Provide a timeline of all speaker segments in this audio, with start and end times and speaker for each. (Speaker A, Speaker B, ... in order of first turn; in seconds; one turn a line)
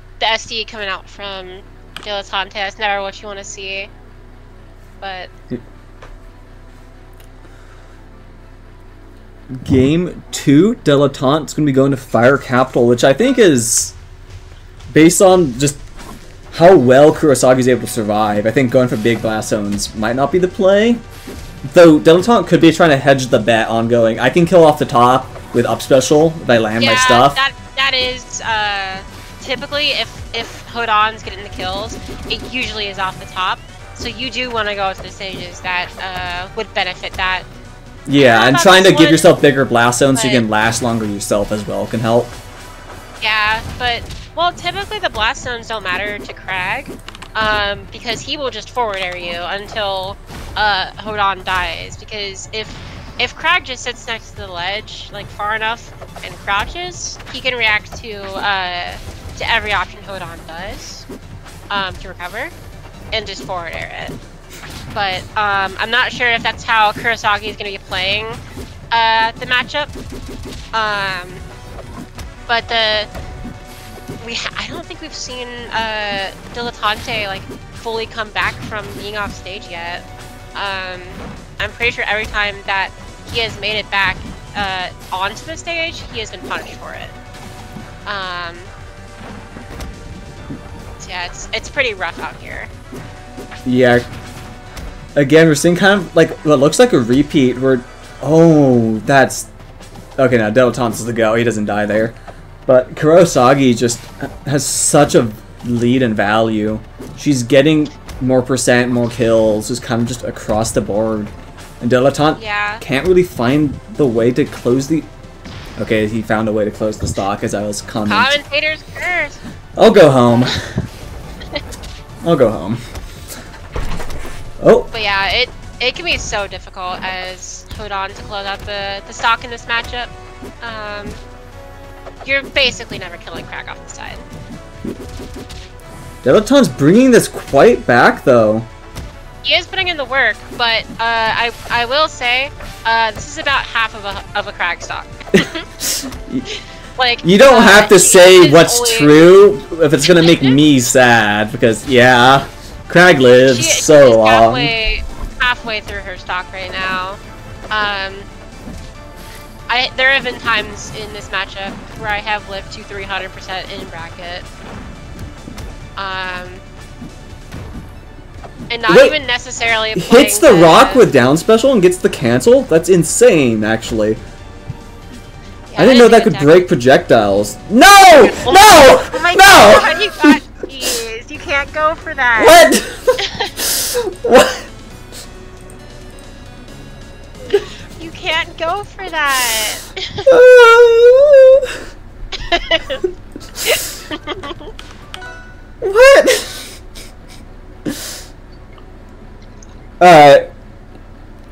Speaker A: 0.2-3.9
Speaker A: 5.0-5.3
Speaker B: 9.6-13.9
Speaker B: 14.9-15.8
Speaker B: 16.5-21.0
Speaker B: 21.6-27.4
Speaker A: 26.8-37.5
Speaker B: 38.1-42.4
Speaker A: 38.2-39.3
Speaker A: 40.1-40.4
Speaker A: 43.2-61.1
Speaker A: 61.7-62.5
Speaker A: 63.1-64.2
Speaker A: 64.9-68.4
Speaker A: 68.9-69.9
Speaker A: 70.7-71.4
Speaker A: 72.5-73.1
Speaker A: 74.2-87.2
Speaker A: 88.1-88.7
Speaker A: 91.0-92.7
Speaker B: 93.7-94.1
Speaker B: 95.2-99.5
Speaker B: 100.2-102.2
Speaker B: 102.7-115.1
Speaker A: 112.3-112.8
Speaker B: 115.8-118.4
Speaker A: 118.1-119.4
Speaker B: 119.8-120.6
Speaker B: 122.2-122.8
Speaker B: 124.6-124.9
Speaker A: 124.9-131.2
Speaker A: 132.2-134.3
Speaker B: 136.2-138.7
Speaker A: 139.4-145.7
Speaker B: 145.8-146.5
Speaker A: 146.5-149.1
Speaker B: 147.2-154.7
Speaker A: 150.1-150.6
Speaker A: 153.4-158.3
Speaker A: 159.7-164.5
Speaker A: 166.0-166.6
Speaker A: 168.7-171.1
Speaker B: 168.9-169.2
Speaker B: 169.9-174.2
Speaker A: 175.7-176.7
Speaker B: 175.8-180.3
Speaker A: 178.2-183.5
Speaker B: 182.4-184.7
Speaker A: 188.0-190.3
Speaker B: 190.3-191.7
Speaker A: 192.5-193.0
Speaker A: 193.6-194.7
Speaker B: 195.8-196.7
Speaker B: 200.0-200.4